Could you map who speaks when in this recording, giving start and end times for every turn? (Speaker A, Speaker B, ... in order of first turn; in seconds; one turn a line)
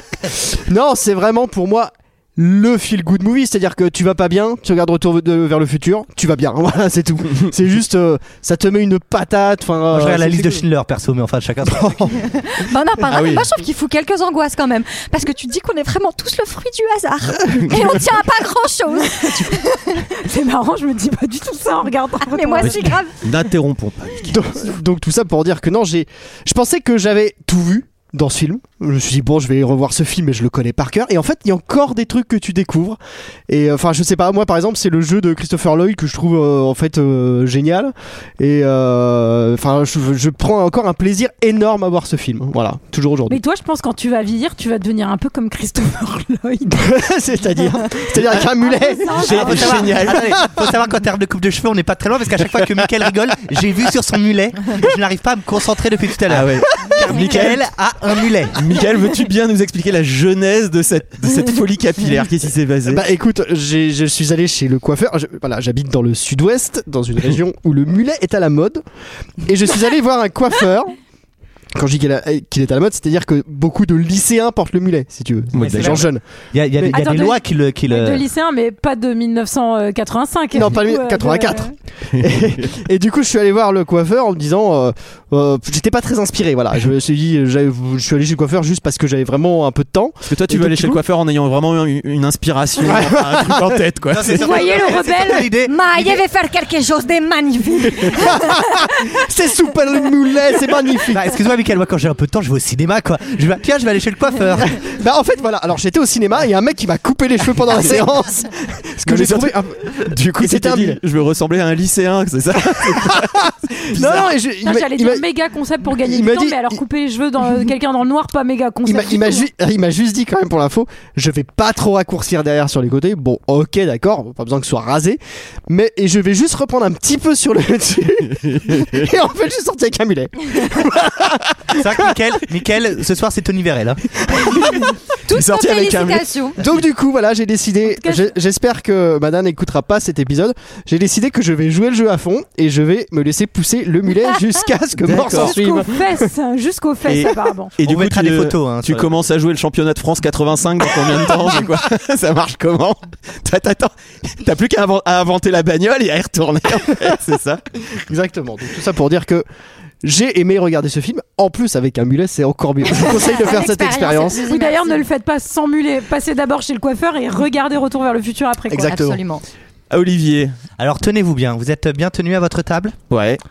Speaker A: 0.3-10.6
Speaker B: 9.9-12.1
Speaker A: 11.7-12.2
Speaker C: 12.5-19.8
Speaker D: 13.1-13.5
Speaker D: 17.5-17.9
Speaker E: 20.0-23.0
Speaker C: 22.2-23.1
Speaker D: 22.6-24.4
Speaker A: 24.3-33.0
Speaker A: 33.5-43.4
Speaker E: 43.3-46.9
Speaker A: 46.7-50.6
Speaker E: 48.6-49.9
Speaker D: 49.1-50.3
Speaker B: 49.3-58.6
Speaker D: 56.3-57.6
Speaker D: 58.5-63.0
Speaker A: 62.9-68.8
Speaker A: 69.4-71.0
Speaker A: 71.8-76.2
Speaker D: 75.5-76.1
Speaker B: 75.6-78.2
Speaker A: 76.7-77.3
Speaker E: 76.9-81.7
Speaker A: 80.5-91.0
Speaker D: 90.3-94.6
Speaker A: 92.8-93.8
Speaker B: 94.1-96.1
Speaker E: 94.4-95.5
Speaker C: 95.5-98.6
Speaker A: 98.1-101.3
Speaker B: 101.1-104.8
Speaker A: 104.8-111.0
Speaker D: 109.0-114.3
Speaker A: 112.7-115.2
Speaker E: 114.6-119.5
Speaker A: 115.9-116.8
Speaker A: 118.8-131.8
Speaker D: 128.4-129.0
Speaker B: 131.7-134.0
Speaker A: 134.3-134.6
Speaker C: 135.2-136.6
Speaker D: 135.3-136.3
Speaker A: 136.6-146.3
Speaker E: 137.8-138.3
Speaker D: 145.0-145.6
Speaker E: 145.2-147.8
Speaker D: 147.0-157.6
Speaker B: 147.8-149.1
Speaker A: 158.1-159.4
Speaker A: 160.0-164.4
Speaker C: 162.8-165.0
Speaker E: 164.4-168.9
Speaker A: 168.7-169.2
Speaker C: 168.9-169.4
Speaker D: 169.9-170.5
Speaker B: 170.8-173.0
Speaker D: 173.1-173.4